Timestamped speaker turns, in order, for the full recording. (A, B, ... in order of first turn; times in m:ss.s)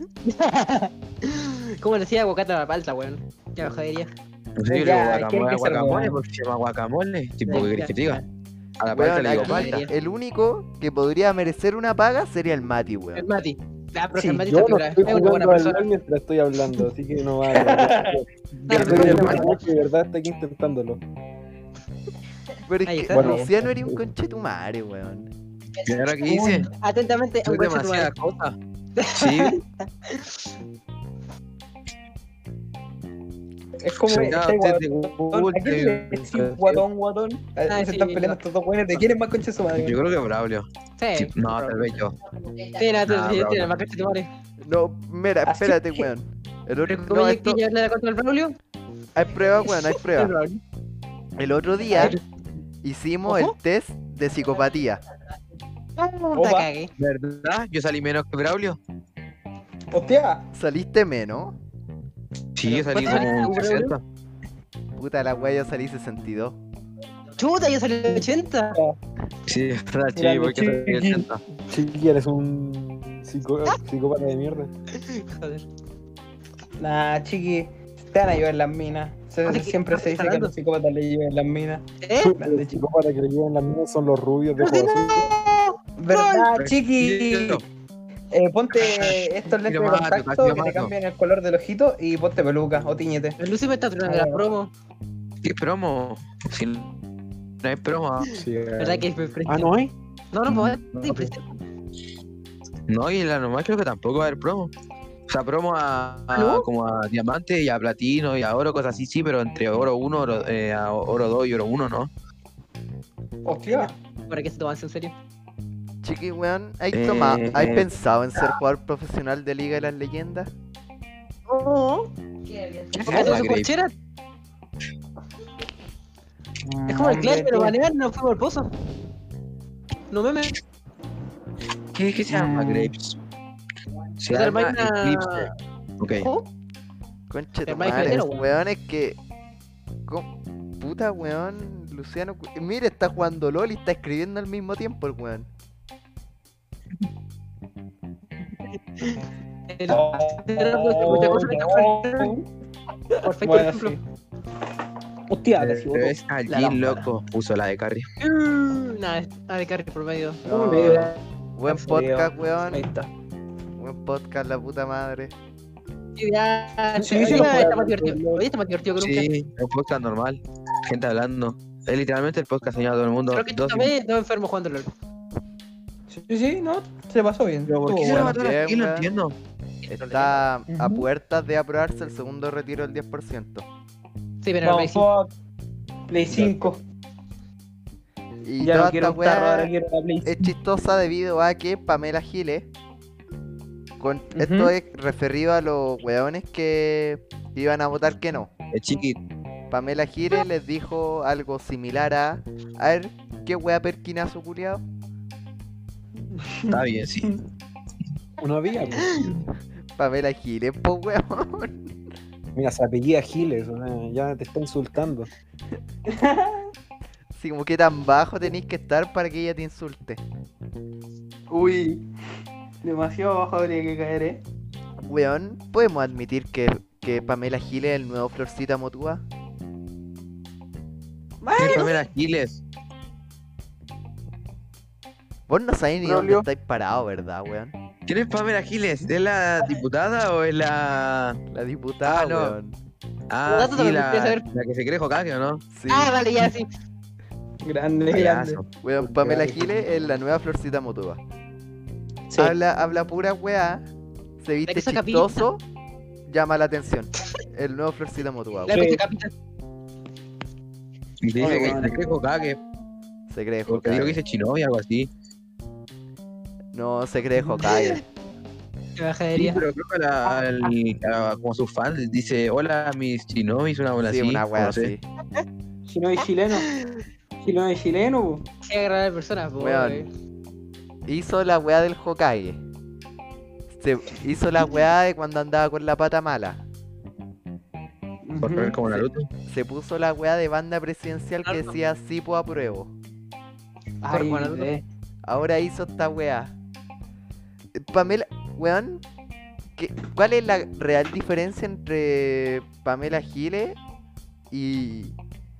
0:00.2-0:04.1 A
0:04.6-0:08.2 B
0:04.6-0:06.2 C
0:07.4-0:08.2 A
0:08.8-0:09.8 B
0:08.9-0:13.2 D
0:09.3-0:09.9 A
0:13.1-0:15.8 A
0:14.2-0:21.0 E
0:17.5-0:18.2 C
0:18.7-0:19.5 B
0:18.7-0:19.6 A
0:19.0-0:19.3 C
0:22.7-0:25.3 D
0:22.8-0:23.5 A
0:23.1-0:24.0 E
0:25.8-0:26.7 B
0:26.2-0:26.6 C
0:26.7-0:28.1 A
0:27.4-0:28.6 B
0:29.0-0:30.3 A
0:29.1-0:29.6 B
0:33.8-0:40.0 C
0:34.0-0:36.8 B
0:37.7-0:38.4 A
0:39.7-0:42.2 B
0:41.0-0:42.0 A
0:42.6-0:44.3 A
0:43.0-0:43.7 B
0:44.6-0:47.6 D
0:45.4-0:46.1 C
0:46.8-0:48.6 A
0:49.1-0:50.3 D
0:49.6-0:50.6 A
0:51.4-0:52.2 D
0:51.9-0:52.2 A
0:52.8-0:55.0 D
0:53.2-0:53.5 A
0:56.0-0:56.9 A
0:56.3-0:56.7 C
0:57.0-0:58.8 B
0:59.9-1:00.4 C
1:00.5-1:01.6 D
1:02.5-1:04.0 B
1:02.7-1:04.0 A
1:03.0-1:03.3 C
1:05.0-1:06.6 D
1:07.4-1:08.8 A
1:08.0-1:09.0 C
1:09.5-1:11.4 B
1:10.2-1:11.2 C
1:11.7-1:14.7 E
1:14.9-1:15.6 A
1:16.8-1:21.8 C
1:19.4-1:20.5 A
1:22.0-1:22.4 A
1:22.2-1:25.3 E
1:22.4-1:22.8 C
1:24.6-1:26.5 A
1:26.0-1:27.6 C
1:26.5-1:27.6 B
1:28.3-1:33.4 C
1:28.8-1:30.9 B
1:33.4-1:34.7 A
1:34.0-1:34.4 C
1:35.4-1:37.0 B
1:37.6-1:38.4 B
1:38.3-1:39.9 E
1:38.8-1:39.7 A
1:40.3-1:41.6 A
1:40.5-1:41.3 B
1:42.9-1:44.7 B
1:45.3-1:52.1 B
1:46.3-1:46.7 A
1:53.4-1:53.9 C
1:53.7-1:55.1 A
1:56.0-2:00.5 D
1:56.9-1:58.5 B
2:01.5-2:02.1 A
2:02.6-2:03.9 A
2:03.0-2:03.7 B
2:06.6-2:07.8 C
2:06.9-2:08.7 A
2:10.1-2:10.6 A
2:11.9-2:13.2 B
2:12.3-2:12.9 C
2:14.2-2:16.3 B
2:14.3-2:15.5 A
2:16.1-2:16.5 A
2:17.3-2:19.2 D
2:17.6-2:18.5 A
2:17.9-2:18.2 B
2:20.8-2:25.5 D
2:29.0-2:32.3 A
2:29.9-2:32.5 C
2:33.1-2:34.0 C
2:33.2-2:34.0 A
2:35.3-2:36.7 C
2:35.6-2:38.1 B
2:36.5-2:37.0 A
2:38.2-2:40.4 A
2:40.4-2:43.1 C
2:40.4-2:42.9 D
2:43.8-2:45.3 D
2:46.2-2:49.3 A
2:47.0-2:48.4 C
2:47.2-2:47.6 E
2:49.0-2:53.9 B
2:53.3-2:54.9 A
2:56.1-2:58.4 C
2:57.7-2:59.4 B
2:58.0-2:59.1 D
2:59.8-3:00.4 A
2:59.9-3:03.6 D
3:00.7-3:01.1 C
3:04.4-3:05.1 A
3:04.6-3:05.3 C
3:06.1-3:06.8 C
3:08.4-3:09.7 D
3:08.6-3:10.5 C
3:10.2-3:12.7 D
3:14.0-3:18.5 D
3:14.3-3:14.7 C
3:18.7-3:19.2 B
3:19.7-3:24.8 D
3:26.3-3:27.3 C
3:26.7-3:27.4 B
3:28.4-3:29.2 E
3:30.0-3:31.8 D
3:32.5-3:35.3 E
3:36.0-3:36.7 C
3:37.3-3:40.2 D
3:41.5-3:42.1 C
3:42.8-3:44.4 C
3:45.1-3:49.2 D
3:51.4-3:52.0 C
3:51.6-3:52.6 B
3:55.5-3:57.7 D
3:56.0-3:56.4 C
3:58.1-4:01.4 B
4:01.5-4:02.7 D
4:02.0-4:02.6 B
4:03.3-4:05.6 B
4:03.4-4:04.4 A
4:05.7-4:06.1 D
4:05.9-4:06.7 A
4:07.6-4:08.6 C
4:08.1-4:08.6 B
4:08.8-4:11.2 D
4:09.0-4:09.8 E
4:12.4-4:13.8 D
4:14.4-4:15.6 D
4:14.7-4:15.4 A
4:16.3-4:18.8 D
4:18.7-4:19.3 A
4:18.7-4:19.0 C
4:21.2-4:22.6 B
4:21.4-4:22.0 C
4:21.4-4:21.7 E
4:23.3-4:24.2 D
4:23.7-4:25.1 B
4:26.7-4:28.0 D
4:27.6-4:28.0 A
4:29.0-4:29.6 A
4:29.3-4:34.9 B
4:34.0-4:35.0 D
4:35.9-4:36.7 C
4:36.6-4:37.0 A
4:37.4-4:38.4 C
4:38.6-4:40.1 A
4:39.6-4:40.0 D
4:41.1-4:42.6 D
4:43.7-4:46.6 D
4:48.2-4:49.0 C
4:48.4-4:49.3 B
4:49.4-4:52.9 D
4:51.4-4:51.7 A
4:54.0-4:54.8 C
4:54.1-4:54.7 A
4:55.2-4:56.5 D
4:57.8-4:59.0 D
4:59.8-5:03.8 D
5:04.5-5:05.1 D